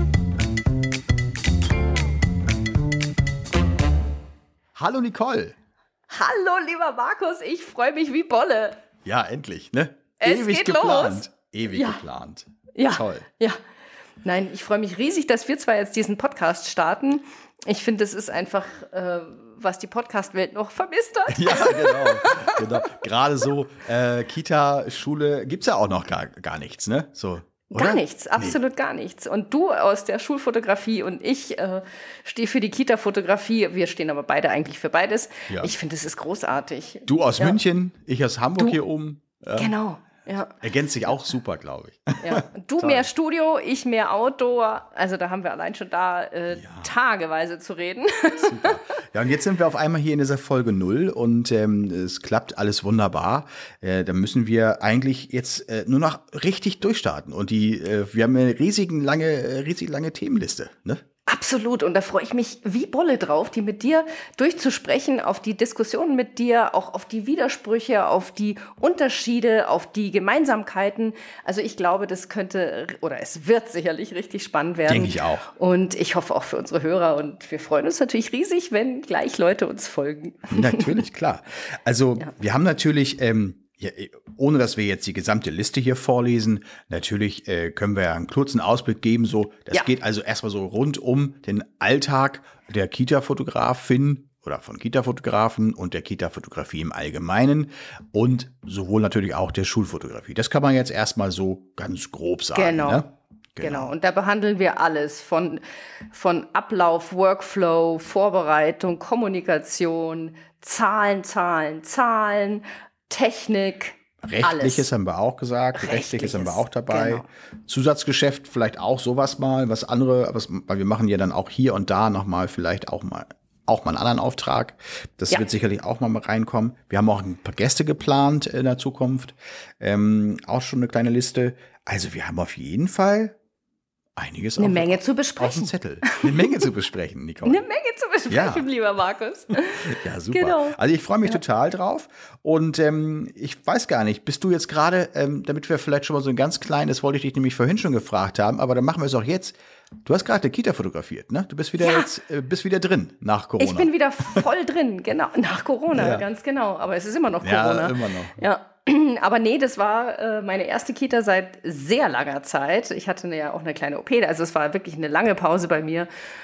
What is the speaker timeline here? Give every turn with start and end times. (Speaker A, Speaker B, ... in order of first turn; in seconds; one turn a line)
Speaker A: 4.8-5.6
Speaker B: 6.1-8.8
Speaker A: 9.0-13.3
Speaker B: 10.2-12.0
Speaker B: 12.8-13.6
Speaker B: 14.2-23.0
Speaker A: 21.3-28.6
Speaker B: 27.7-37.6
Speaker A: 37.1-39.7
Speaker B: 39.6-40.6
Speaker A: 40.6-43.1
Speaker B: 42.2-48.8
Speaker A: 46.5-46.9
Speaker A: 48.4-61.0
Speaker B: 61.3-81.0
Speaker A: 74.9-75.4
Speaker A: 80.5-103.0
Speaker B: 102.5-103.1
Speaker A: 103.6-103.9
Speaker B: 103.6-114.9
Speaker A: 114.2-133.4
Speaker B: 115.7-117.3
Speaker A: 134.2-137.6
Speaker B: 134.6-136.7
Speaker B: 137.4-141.4
Speaker A: 138.3-138.7
Speaker A: 139.8-154.5
Speaker B: 151.8-152.1
Speaker B: 153.6-166.1
Speaker A: 155.9-156.3
Speaker A: 157.4-158.4